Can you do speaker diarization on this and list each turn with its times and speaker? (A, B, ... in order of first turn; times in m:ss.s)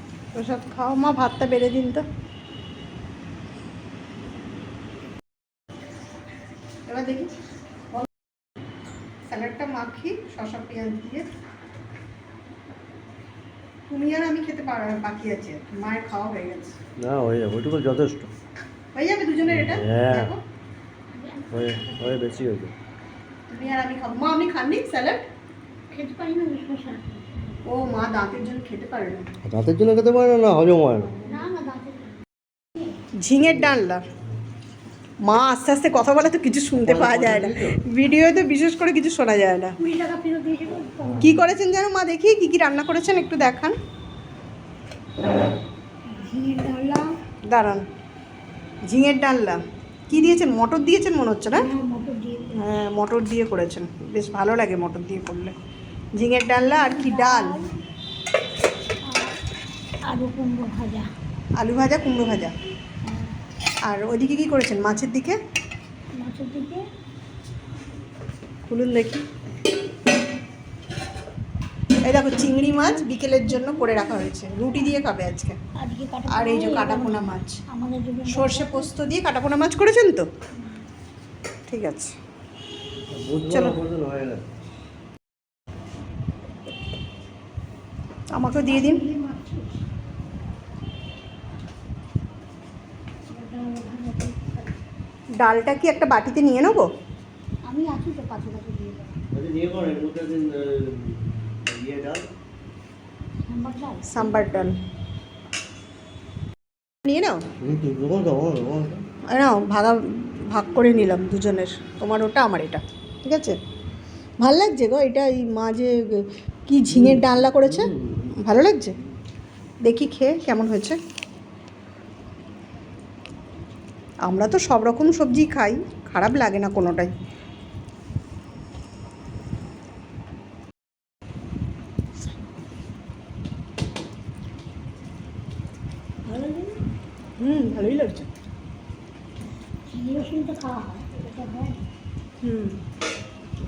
0:00.4-0:02.0 A
0:06.9-0:07.3 A
0:09.3-0:11.3 A
0:13.9-0:16.8 A
0:17.0-0:18.3 B
0:18.9-0:20.4 A
0:19.4-0:20.3 B
0:21.1-0:22.5 C
0:21.5-0:22.7 B
0:23.5-0:25.2 A
0:25.9-0:27.6 C
0:27.6-0:29.3 A
0:29.4-0:31.2 B
0:31.2-0:32.2 C
0:33.2-0:34.0 A
0:33.4-0:33.7 B
0:35.2-0:39.8 A
0:36.8-0:37.8 B
0:39.8-0:41.4 C
0:41.2-0:43.8 A
0:46.1-0:47.1 C
0:47.4-0:47.9 A
0:48.9-0:51.7 A
0:50.1-0:50.4 C
0:51.5-0:52.6 C
0:52.6-0:55.6 A
0:56.2-0:57.6 A
0:56.5-0:57.8 C
0:59.1-0:59.4 C
1:00.1-1:01.1 C
1:01.6-1:02.6 A
1:03.0-1:03.3 C
1:03.9-1:05.4 A
1:06.2-1:06.8 C
1:08.7-1:09.2 A
1:12.0-1:15.6 A
1:12.8-1:15.0 C
1:15.8-1:18.9 C
1:16.3-1:17.6 A
1:18.3-1:20.3 A
1:21.7-1:22.2 A
1:23.1-1:24.4 B
1:23.5-1:23.8 A
1:28.4-1:29.0 A
1:28.7-1:29.8 C
1:33.3-1:34.8 C
1:35.4-1:36.9 A
1:37.6-1:39.2 C
1:39.3-1:42.3 B
1:43.4-1:44.3 C
1:44.1-1:44.8 A
1:44.2-1:44.7 B
1:47.1-1:47.4 A
1:47.6-1:49.0 B
1:49.3-1:53.6 A
1:54.4-1:59.0 A
1:56.9-1:58.4 B
1:59.8-2:01.0 A
2:04.2-2:07.1 A
2:16.3-2:16.8 C
2:17.4-2:18.3 A
2:19.9-2:21.8 C
2:22.4-2:22.8 A